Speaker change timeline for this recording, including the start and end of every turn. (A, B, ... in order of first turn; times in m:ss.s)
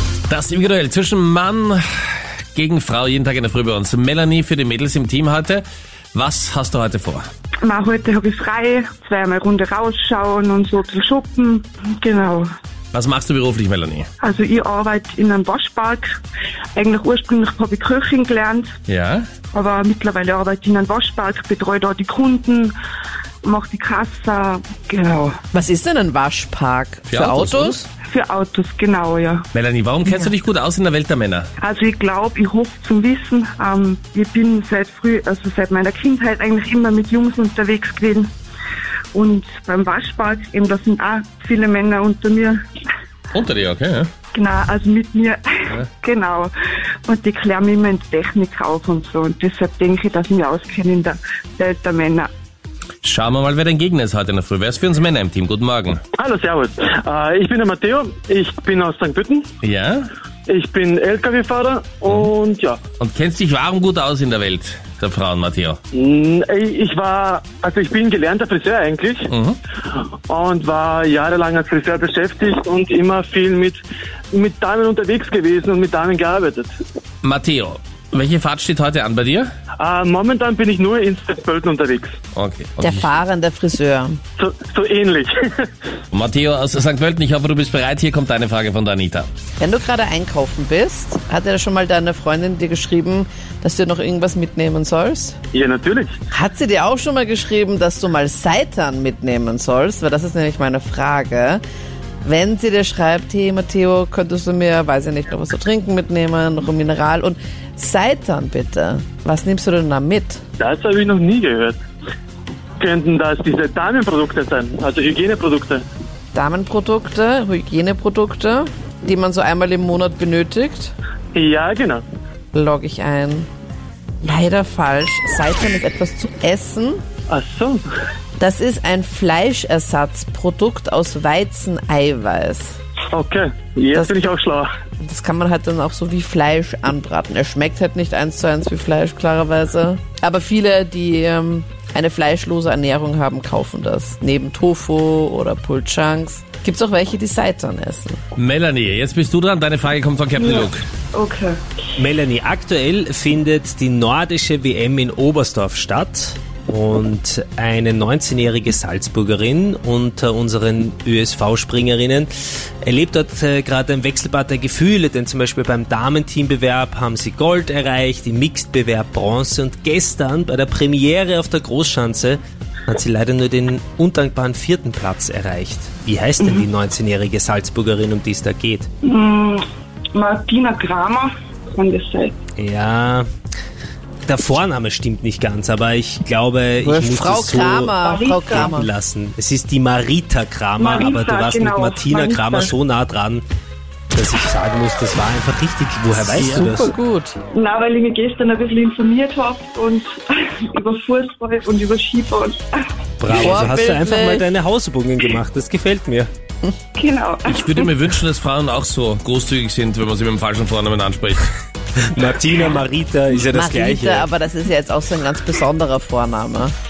0:00.3-0:01.8 A
0:02.5-0:07.2 A
0:07.6-0:12.5 B
0:12.9-0:14.1 A
0:14.2-0:16.2 B
0:16.7-0:18.7 B
0:18.9-0:19.3 A
0:19.5-0:22.7 B
0:23.4-0:25.4 B
0:25.5-0:27.9 C
0:27.1-0:27.8 A
0:28.1-0:29.5 B
0:29.5-0:31.5 A
0:31.6-0:38.3 B
0:39.1-0:42.6 B
0:43.3-0:44.1 A
0:44.3-0:46.5 B
0:47.0-0:52.3 B
0:53.0-0:56.0 A
0:56.2-0:59.5 D
0:59.6-1:00.1 A
1:00.5-1:02.8 D
1:03.0-1:05.8 A
1:05.9-1:09.3 D
1:09.3-1:09.6 A
1:09.9-1:13.8 D
1:14.3-1:16.7 D
1:17.2-1:19.5 A
1:19.8-1:22.1 D
1:22.3-1:23.1 A
1:22.8-1:24.2 C
1:24.4-1:25.7 D
1:26.1-1:29.3 A
1:29.6-1:35.4 C
1:35.5-1:36.1 D
1:36.3-1:41.6 C
1:42.2-1:50.4 C
1:50.6-1:51.8 D
1:52.8-1:55.8 D
1:56.3-2:00.9 C
2:01.3-2:02.0 D
2:02.5-2:03.5 C
2:04.2-2:07.0 C
2:07.3-2:07.8 D
2:08.4-2:12.8 C
2:13.1-2:14.7 D
2:15.0-2:28.2 C
2:28.4-2:30.8 A
2:30.4-2:31.6 B
2:32.0-2:58.9 E
2:59.0-3:02.4 B
3:02.6-3:03.2 E
3:04.2-3:08.0 E
3:06.8-3:08.9 C
3:08.0-3:08.7 B
3:08.5-3:13.4 E
3:10.8-3:12.7 B
3:14.1-3:16.9 E
3:16.2-3:17.4 C
3:17.5-3:22.8 B
3:23.2-3:26.3 E
3:23.3-3:24.4 C
3:27.0-3:27.9 B
3:27.4-3:31.5 A
3:32.0-3:34.3 E
3:33.5-3:36.7 C